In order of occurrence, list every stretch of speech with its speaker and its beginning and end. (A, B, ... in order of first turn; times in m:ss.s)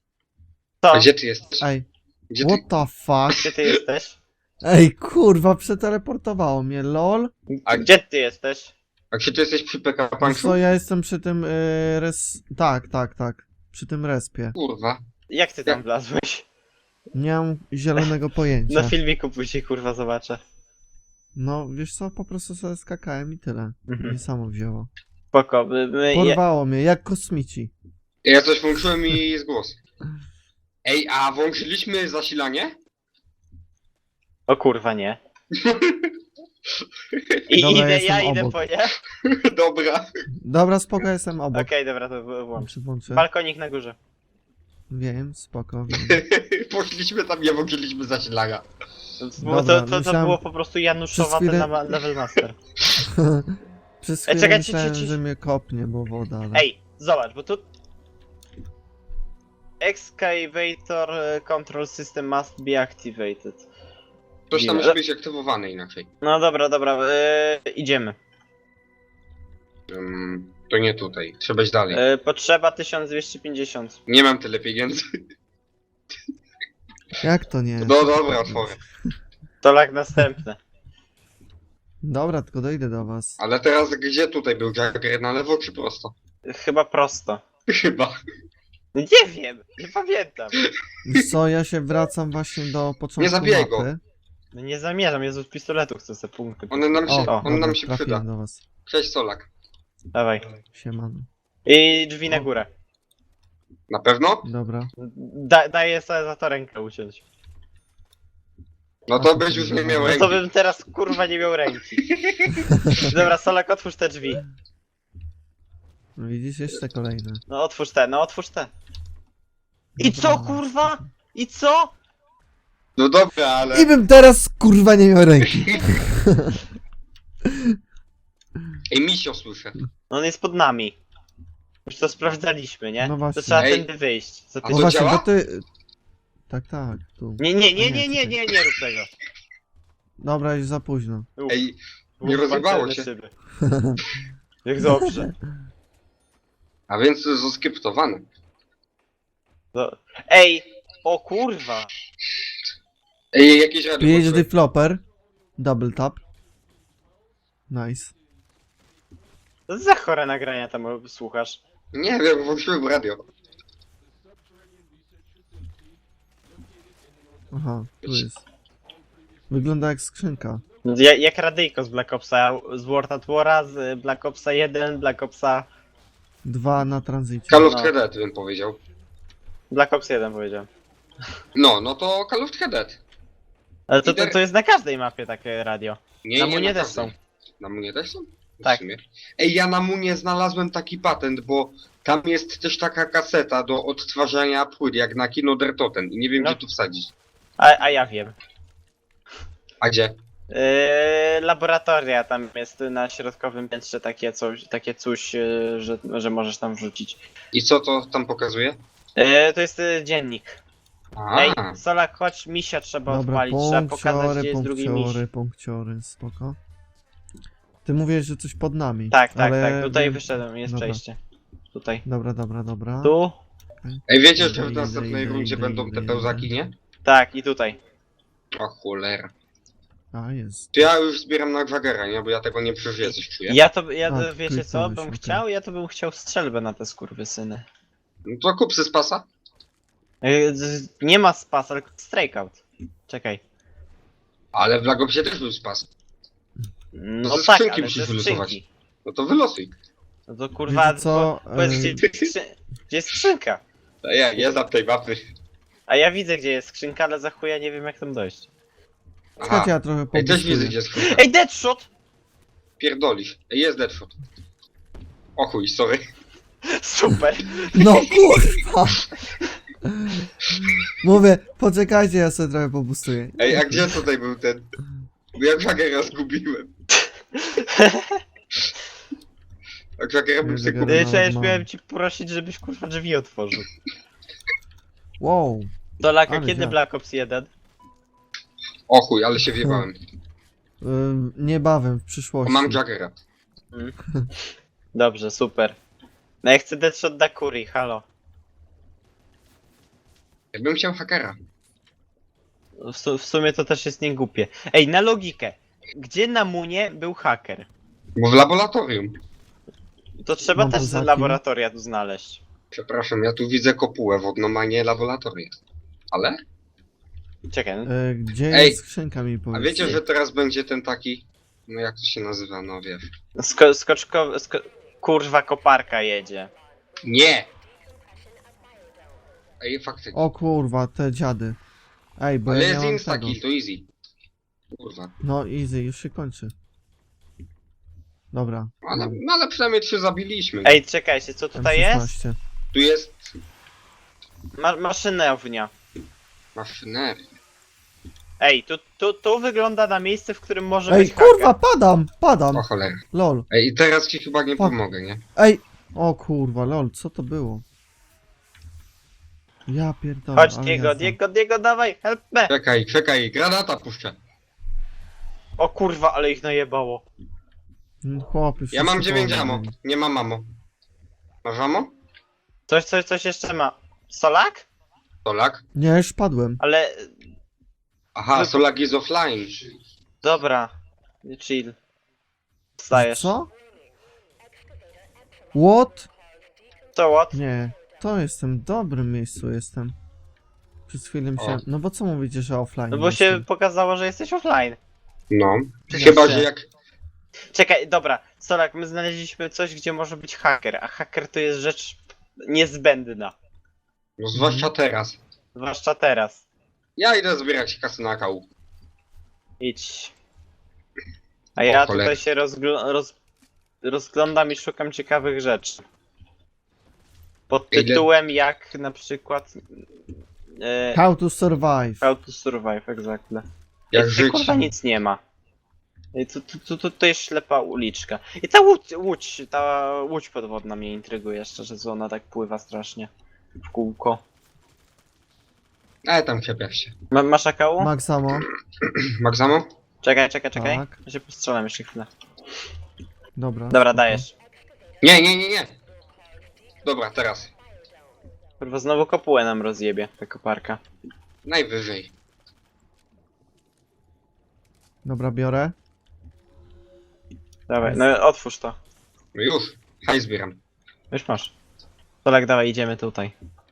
0:00.8-0:01.1 A
0:00.9-0:01.7 B
0:01.6-0:01.8 C
0:02.3-0:02.6 B
0:02.4-0:03.5 C
0:03.4-0:04.2 A
0:04.6-0:07.3 C
0:07.5-0:08.7 A
0:09.1-0:10.6 B
0:10.2-0:14.5 C
0:14.5-0:15.0 B
0:15.3-0:16.4 A
0:17.1-0:19.0 C
0:18.7-0:20.4 A
0:21.3-0:24.9 C
0:23.9-0:24.2 A
0:25.3-0:26.4 A
0:26.1-0:27.7 C
0:28.2-0:29.8 B
0:30.8-0:32.8 B
0:34.5-0:35.2 A
0:35.5-0:36.1 B
0:37.1-0:37.4 B
0:37.5-0:39.0 A
0:37.6-0:38.6 C
0:39.2-0:40.2 B
0:40.4-0:41.7 C
0:41.5-0:44.0 A
0:42.6-0:43.3 C
0:44.9-0:46.2 C
0:45.9-0:48.6 B
0:49.2-0:52.6 A
0:49.4-0:50.4 C
0:51.1-0:51.7 C
0:53.0-0:56.7 C
0:54.3-0:55.2 A
0:56.5-0:57.6 A
0:59.8-1:03.7 A
1:04.5-1:06.1 B
1:04.5-1:05.0 A
1:06.2-1:08.2 A
1:09.9-1:12.0 B
1:11.9-1:14.0 A
1:14.1-1:15.1 B
1:17.2-1:19.1 C
1:17.8-1:18.8 B
1:19.6-1:20.6 A
1:22.0-1:23.4 C
1:23.4-1:26.1 B
1:26.4-1:27.4 A
1:27.7-1:28.2 B
1:28.9-1:30.6 A
1:30.6-1:31.3 B
1:31.0-1:34.0 C
1:33.2-1:33.9 B
1:34.5-1:37.5 A
1:36.7-1:38.2 B
1:37.1-1:38.6 C
1:38.8-1:39.5 B
1:40.1-1:40.4 A
1:40.7-1:41.3 C
1:41.6-1:42.7 A
1:43.9-1:44.4 B
1:44.4-1:44.9 C
1:45.0-1:47.2 A
1:49.1-1:50.4 B
1:49.2-1:50.4 C
1:50.0-1:52.0 A
1:52.0-1:53.2 B
1:53.0-1:54.4 A
1:56.2-1:57.4 C
1:57.5-1:58.7 A
2:00.0-2:01.0 C
2:00.0-2:01.9 A
2:03.0-2:03.9 B
2:03.7-2:06.6 C
2:05.4-2:06.0 B
2:07.4-2:07.8 C
2:08.9-2:09.8 B
2:10.1-2:11.0 A
2:11.8-2:14.9 A
2:13.0-2:13.7 C
2:13.6-2:13.9 B
2:14.6-2:15.3 B
2:14.7-2:15.6 C
2:16.5-2:18.4 C
2:17.4-2:19.1 A
2:20.2-2:21.3 C
2:21.4-2:21.6 A
2:21.5-2:23.1 B
2:22.2-2:23.3 A
2:23.6-2:24.0 C
2:24.6-2:25.3 A
2:25.0-2:25.3 C
2:26.9-2:28.2 B
2:29.7-2:31.9 A
2:33.3-2:34.4 B
2:34.0-2:35.0 C
2:35.6-2:36.2 C
2:37.7-2:38.1 C
2:39.7-2:41.6 A
2:41.9-2:43.2 B
2:47.5-2:48.4 C
2:49.5-2:50.6 C
2:50.8-2:55.7 A
2:56.4-2:57.7 C
2:57.5-2:58.8 B
2:57.6-2:57.9 A
2:59.7-3:00.7 A
3:01.5-3:03.0 B
3:03.9-3:07.1 A
3:04.0-3:04.4 B
3:06.2-3:17.1 B
3:17.6-3:18.4 A
3:19.8-3:20.2 B
3:20.5-3:27.2 A
3:27.5-3:28.8 B
3:29.2-3:30.6 A
3:31.2-3:31.8 B
3:31.3-3:35.2 A
3:33.1-3:36.6 C
3:37.8-3:41.0 C
3:39.1-3:41.2 A
3:41.7-3:42.0 A
3:42.0-3:43.2 C
3:43.0-3:43.4 A
3:43.8-3:46.5 C
3:44.1-3:46.7 B
3:47.0-3:47.8 A
3:48.5-3:49.3 B
3:50.1-3:50.9 C
3:50.7-3:53.6 B
3:53.5-3:57.6 A
3:54.1-3:55.4 C
3:58.2-3:59.2 B
4:00.2-4:03.4 A
4:04.5-4:05.9 B
4:06.9-4:08.6 A
4:07.2-4:09.7 B
4:10.3-4:13.6 A
4:10.7-4:12.0 C
4:14.0-4:15.2 B
4:15.9-4:18.5 A
4:19.4-4:21.2 B
4:19.4-4:20.8 C
4:21.0-4:21.9 A
4:22.8-4:24.2 B
4:25.4-4:26.0 B
4:26.6-4:28.3 A
4:27.7-4:29.1 C
4:29.8-4:34.0 C
4:33.4-4:34.7 B
4:35.3-4:36.7 B
4:37.3-4:38.2 A
4:40.0-4:41.1 B
4:40.4-4:41.6 C
4:40.9-4:43.7 A
4:45.2-4:45.7 C
4:46.0-4:47.5 A
4:46.2-4:46.8 C
4:48.9-4:50.0 B
4:49.4-4:49.8 C
4:50.8-4:52.8 C
4:52.4-4:53.2 B
4:53.7-4:55.8 A
4:56.4-4:58.0 A
5:00.5-5:01.4 B
5:02.8-5:07.7 A
5:08.2-5:09.2 B
5:10.2-5:12.4 A
5:10.6-5:11.4 C
5:12.7-5:15.5 B
5:16.1-5:16.4 B
5:17.5-5:17.9 A
5:17.8-5:20.0 C
5:18.5-5:18.8 B
5:19.5-5:23.1 B
5:23.4-5:26.5 A
5:27.0-5:27.5 B
5:29.6-5:30.2 B
5:30.1-5:31.6 C
5:32.2-5:33.4 C
5:32.5-5:33.9 B
5:34.7-5:35.1 B
5:35.2-5:36.5 C
5:38.3-5:39.1 C
5:38.8-5:40.8 B
5:40.6-5:42.1 A
5:41.6-5:42.4 C
5:42.7-5:43.3 B
5:44.6-5:45.7 A
5:46.5-5:47.2 B
5:48.4-5:51.5 A
5:50.9-5:53.5 C
5:52.5-5:55.2 B
5:55.4-5:57.6 C
5:59.7-6:01.2 C
6:00.3-6:02.5 A
6:02.5-6:04.2 B
6:05.6-6:07.0 A
6:08.0-6:09.7 C
6:08.7-6:10.5 B
6:11.4-6:11.9 B
6:12.7-6:14.6 A
6:15.2-6:15.6 B
6:15.7-6:16.6 C
6:16.6-6:17.2 A
6:18.1-6:19.6 B
6:18.3-6:18.6 A
6:20.2-6:20.7 A
6:21.2-6:21.8 A
6:22.8-6:23.3 A
6:22.9-6:23.5 C
6:25.5-6:26.1 C
6:26.9-6:27.4 A
6:27.3-6:30.0 C
6:30.9-6:33.4 C
6:32.9-6:34.8 A
6:35.3-6:36.7 B
6:35.9-6:36.5 A
6:35.9-6:36.2 C
6:37.5-6:43.3 A
6:44.2-6:45.2 B
6:44.3-6:44.7 C
6:45.5-6:46.4 A
6:47.0-6:48.5 B
6:49.6-6:50.1 A
6:51.6-6:53.1 A
6:51.6-6:52.2 B
6:53.8-6:55.8 A
6:57.5-6:59.8 A
6:57.7-6:58.1 B
7:00.6-7:01.0 A
7:00.9-7:02.0 C
7:02.0-7:05.2 A
7:03.9-7:04.7 B
7:06.1-7:14.2 A
7:16.0-7:16.9 B
7:17.1-7:17.9 A
7:17.8-7:18.5 C
7:18.4-7:19.7 B
7:20.0-7:22.1 A
7:20.5-7:21.0 C
7:23.4-7:24.3 C
7:23.7-7:24.3 A
7:25.0-7:25.8 B
7:26.8-7:27.5 B
7:28.6-7:30.8 A
7:31.4-7:32.1 B
7:35.0-7:35.7 C
7:37.7-7:38.8 A
7:39.3-7:40.6 B
7:41.1-7:41.5 A
7:42.2-7:43.3 A